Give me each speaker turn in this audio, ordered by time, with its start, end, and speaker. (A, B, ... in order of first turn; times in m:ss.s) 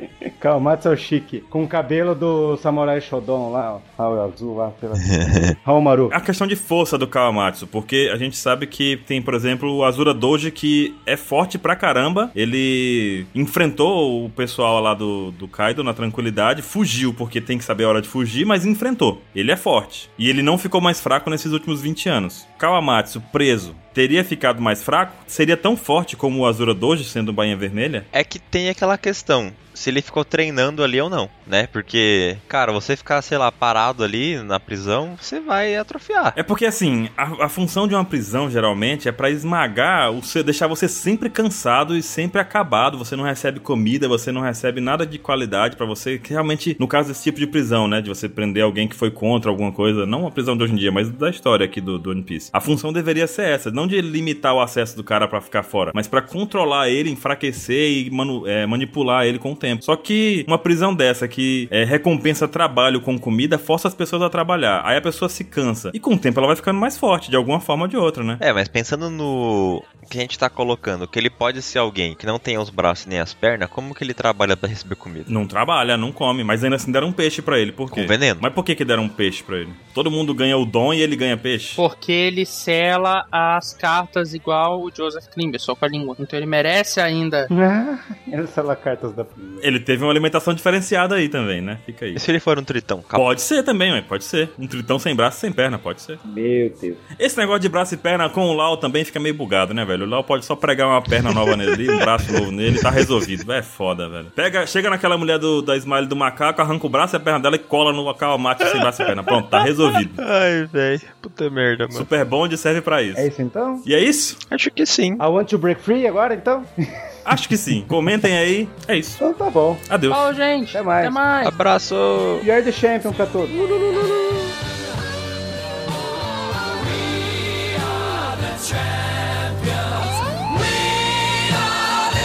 0:00.4-0:06.2 A
0:05.0-0:05.5 B
0:06.1-0:28.1 C
0:28.1-0:36.4 B
0:36.3-1:08.4 C
1:08.4-1:15.3 B
1:15.3-1:21.8 C
1:17.9-1:18.4 B
1:21.8-1:27.5 D
1:27.5-1:29.6 A
1:29.6-1:32.2 C
1:32.1-1:33.2 B
1:33.1-1:36.2 C
1:36.2-1:37.0 A
1:37.2-1:50.2 C
1:41.2-1:43.3 B
1:48.7-1:52.1 B
1:51.9-1:53.3 C
1:53.1-1:53.9 A
1:53.8-1:54.4 C
1:54.5-1:55.2 B
1:55.2-1:57.4 A
1:57.2-1:59.2 C
1:59.2-1:59.8 A
1:59.9-2:00.3 C
2:00.1-2:01.6 D
2:00.7-2:01.2 A
2:01.4-2:02.4 B
2:02.4-2:03.5 A